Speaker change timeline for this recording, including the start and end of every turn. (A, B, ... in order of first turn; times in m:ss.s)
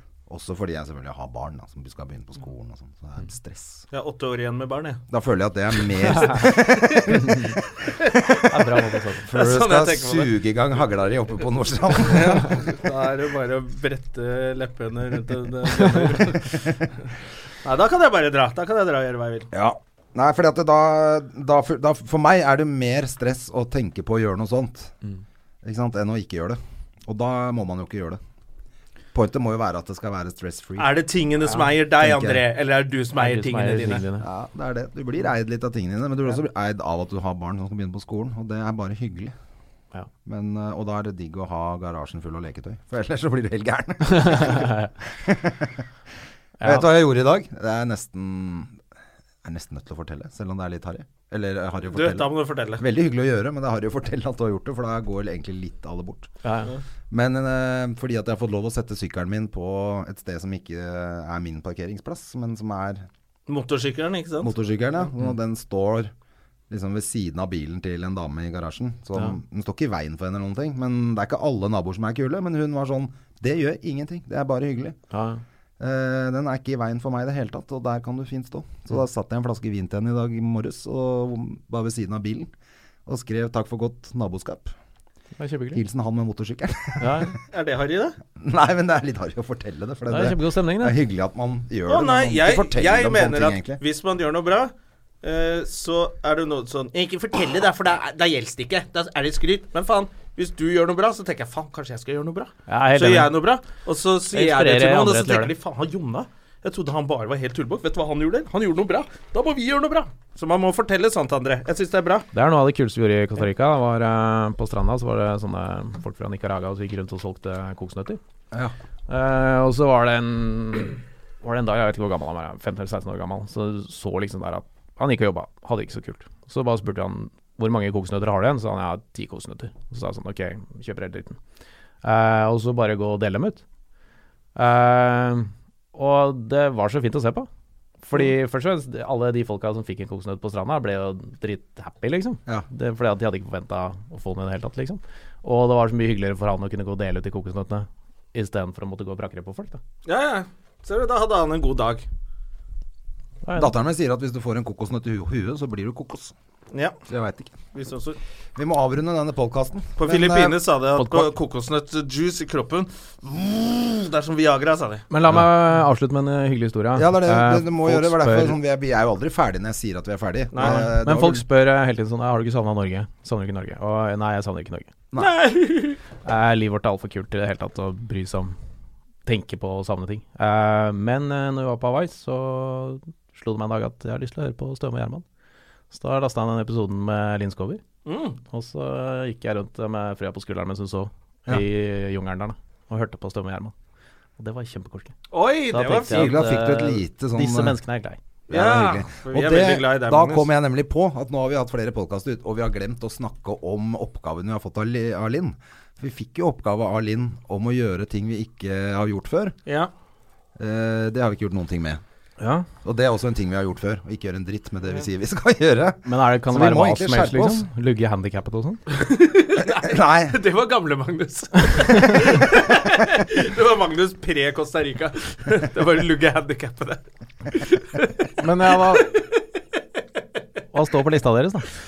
0:00.3-0:03.9 A
0:03.9-0:05.0 B
0:05.1-0:07.6 A
0:07.1-0:07.4 C
0:08.0-0:08.5 B
0:08.5-0:09.3 C
0:09.2-0:12.7 A
0:09.3-0:10.3 B
0:12.1-0:16.7 B
0:17.6-0:19.5 B
0:19.5-0:25.0 A
0:25.6-0:28.2 A
0:29.1-0:30.9 A
0:30.8-0:34.0 B
0:32.0-0:32.4 A
0:33.2-0:34.3 C
0:34.2-0:39.3 A
0:40.2-0:45.8 A
0:44.0-0:44.9 C
0:46.6-0:46.9 C
0:46.6-0:48.8 A
0:49.4-0:56.3 A
0:51.9-0:52.8 B
0:56.4-0:56.7 C
0:57.1-1:03.1 A
1:03.5-1:04.5 B
1:04.4-1:06.1 A
1:06.7-1:15.0 A
1:15.1-1:15.4 C
1:15.8-1:22.5 A
1:23.1-1:24.7 A
1:25.4-1:25.8 C
1:25.7-1:27.3 A
1:27.0-1:27.4 C
1:27.5-1:28.2 B
1:28.4-1:33.8 A
1:30.1-1:31.0 C
1:31.9-1:34.7 B
1:35.2-1:52.3 B
1:42.7-1:43.3 C
1:44.3-1:45.5 C
1:52.3-1:58.2 C
1:59.1-2:11.4 C
2:12.0-2:13.6 C
2:14.6-2:17.5 C
2:18.0-2:29.8 C
2:30.0-2:32.1 B
2:33.4-2:33.7 C
2:33.6-2:36.3 A
2:36.7-2:37.0 B
2:37.1-2:37.6 A
2:37.7-2:38.2 B
2:38.6-2:40.6 A
2:40.0-2:45.1 B
2:41.0-2:41.3 C
2:45.1-2:48.6 C
2:47.0-2:51.4 A
2:50.5-2:50.9 B
2:50.6-2:54.9 C
2:55.2-2:56.0 B
2:56.2-2:58.5 C
2:59.3-3:05.2 C
3:05.9-3:07.8 C
3:08.1-3:08.4 B
3:08.5-3:13.7 C
3:14.4-3:15.1 C
3:15.3-3:16.4 B
3:15.7-3:18.2 C
3:16.1-3:17.8 A
3:18.5-3:29.6 A
3:18.5-3:20.5 B
3:30.6-3:32.0 A
3:32.4-3:32.7 C
3:32.8-3:37.7 A
3:36.0-3:38.8 C
3:38.9-3:49.4 B
3:39.8-3:40.4 A
3:41.8-3:42.2 C
3:48.4-3:49.2 C
3:50.7-3:51.7 C